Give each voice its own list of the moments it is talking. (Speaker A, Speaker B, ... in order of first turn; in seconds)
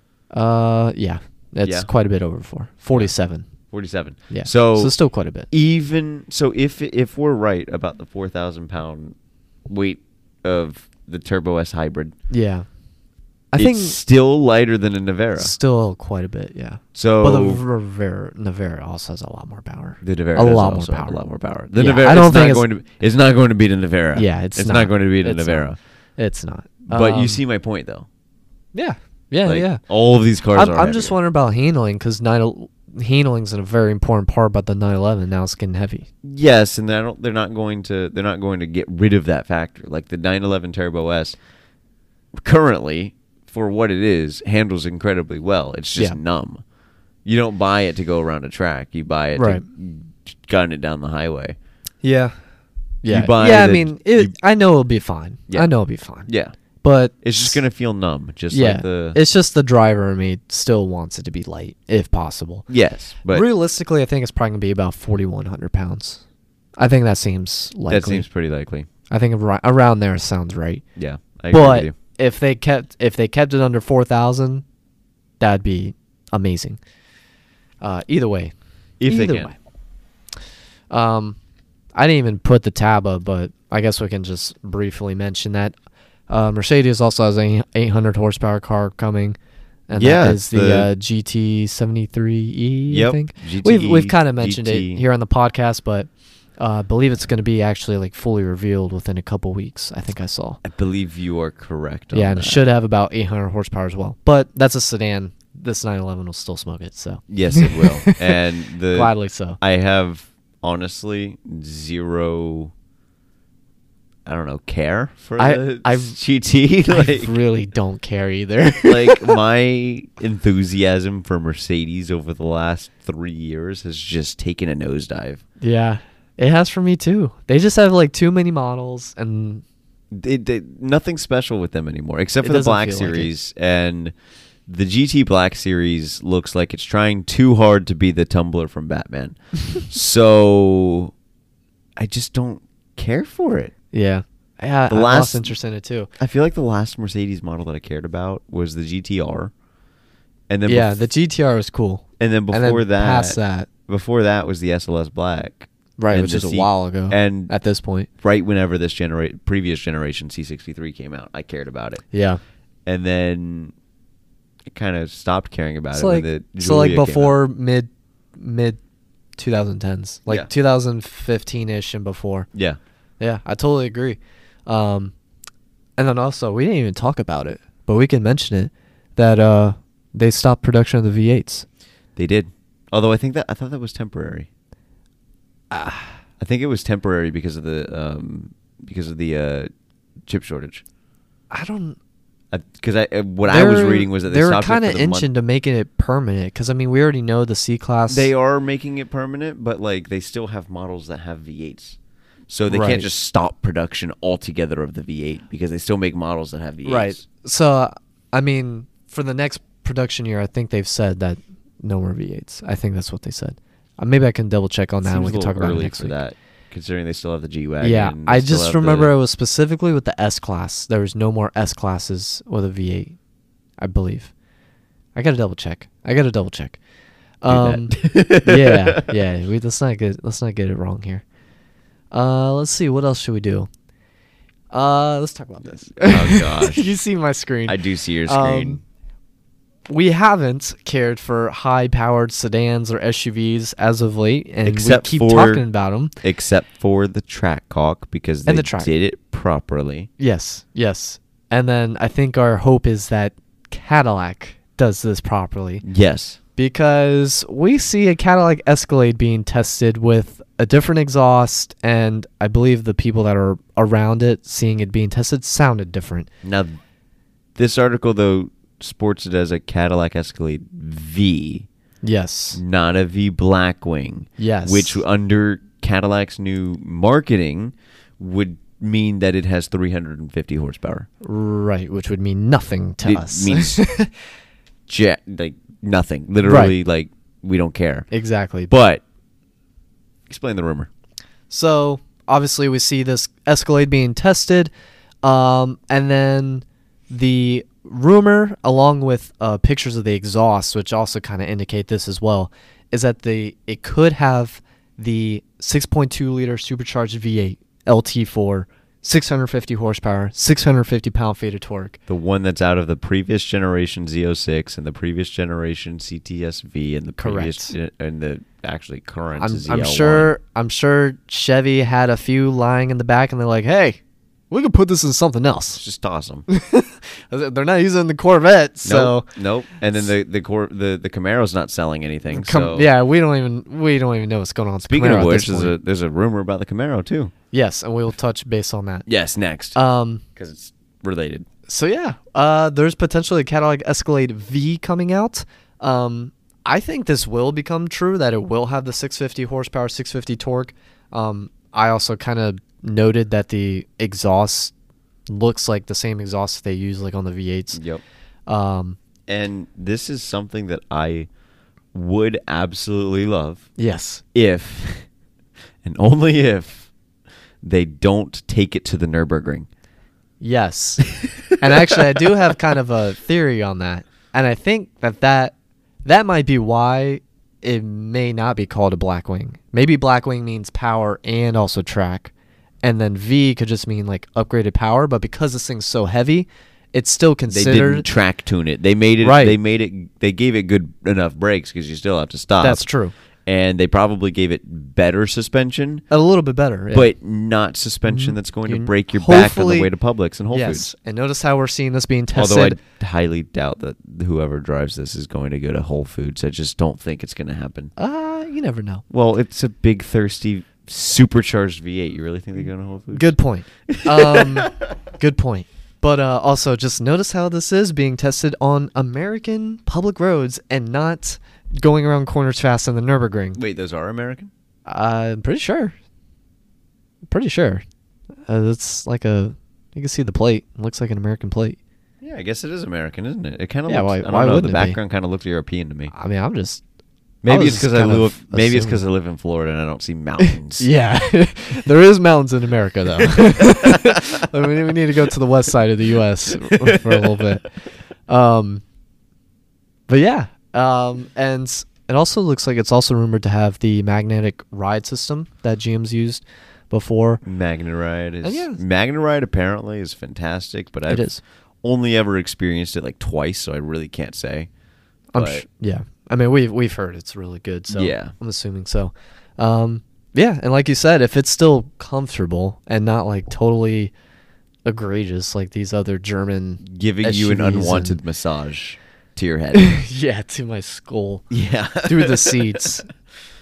Speaker A: 0.3-3.4, 4.3-5.5, 12.3-12.7, 13.5-14.0, 15.4-22.6, 24.1-27.4, 28.7-29.8, 30.5-36.1, 49.4-49.6, 52.0-52.3, 53.0-56.3, 56.8-57.6, 58.5-62.7, 63.3-66.2, 66.8-68.2, 69.1-70.8, 71.5-74.6, 75.4-76.8, 77.8-78.5, 79.0-79.5, 80.9-81.4, 81.9-85.7, 86.3-89.3, 89.9-100.6, 102.1-108.4, 108.9-109.6, 115.4-116.2, 116.9-119.4, 125.6-129.6, 132.4-133.3, 143.9-146.1, 150.7-153.7, 156.0-158.1, 162.1-162.4, 165.9-168.8, 169.4-172.5, 173.2-175.1, 176.0-181.7, 185.7-186.1, 191.5-192.0, 193.4-198.3, 202.7-203.1, 206.8-216.2, 217.8-223.2, 223.8-224.3, 225.1-226.8, 227.4-231.2, 232.1-233.7, 234.7-238.8, 239.9-246.1, 248.4-248.9, 250.2-255.8, 256.6-266.3, 272.0-272.6, 274.4-275.0, 281.2-284.1, 286.4-286.7, 288.1-288.7, 291.5-294.7, 295.2-312.0, 317.2-317.7, 319.4-324.0, 324.5-325.8, 326.5-329.3, 332.3-335.7, 337.5-339.1, 339.7-340.2, 341.7-354.7, 355.3-357.8, 358.5-359.0, 363.8-364.2, 370.4-375.5, 376.0-382.3, 382.8-388.1, 389.2-389.6, 392.6-393.1, 396.1-397.1, 398.1-399.9, 400.5-402.8, 408.0-409.0, 413.1-423.6, 424.9-425.9, 427.3-427.8, 428.5-431.8, 433.9-435.0, 436.1-436.8, 437.5-439.0, 440.4-447.6, 448.3-448.8, 450.1-457.4, 458.4-458.8, 461.1-461.4, 465.3-474.1, 474.8-478.2, 479.7-481.4, 482.0-483.1
Speaker B: 3.7-4.9, 5.5-9.1, 9.7-12.1, 13.6-15.5, 16.9-17.6, 20.0-25.8, 26.9-28.1, 29.4-31.1, 36.2-41.4, 42.3-46.6, 47.2-51.6, 53.1-54.3, 56.3-56.5, 57.2-59.2, 62.7-63.4, 67.9-68.9, 71.0-71.9, 79.0-79.5, 90.0-90.9, 92.9-95.0, 100.6-102.6, 107.3-112.7, 114.2-117.3, 118.8-125.4, 130.1-134.1, 134.7-141.1, 142.0-143.7, 144.9-145.5, 146.2-149.5, 150.5-151.0, 152.2-157.5, 158.2-162.0, 162.8-163.7, 164.7-167.4, 182.2-184.5, 186.4-189.7, 190.2-190.8, 192.5-195.3, 198.1-202.0, 202.5-207.2, 215.0-219.1, 227.5-229.1, 236.0-236.9, 237.7-238.8, 244.6-245.6, 246.2-250.1, 255.8-256.4, 266.4-266.8, 267.6-271.7, 272.5-281.1, 283.0-283.8, 284.9-288.1, 288.7-289.0, 290.3-290.9, 312.1-320.3, 325.8-326.4, 328.8-332.9, 334.9-337.3, 339.1-339.8, 340.4-341.4, 357.7-358.0, 359.3-361.3, 361.9-363.7, 364.3-365.1, 365.8-366.9, 367.6-369.7, 387.5-392.9, 393.4-396.0, 396.9-400.9, 402.3-407.9, 409.1-413.3, 413.9-414.8, 423.5-424.5, 432.2-436.1, 437.4-440.9, 443.2-444.6, 446.5-447.5, 457.4-464.7, 465.4-465.6, 467.9-468.3, 476.8-480.0, 481.5-482.8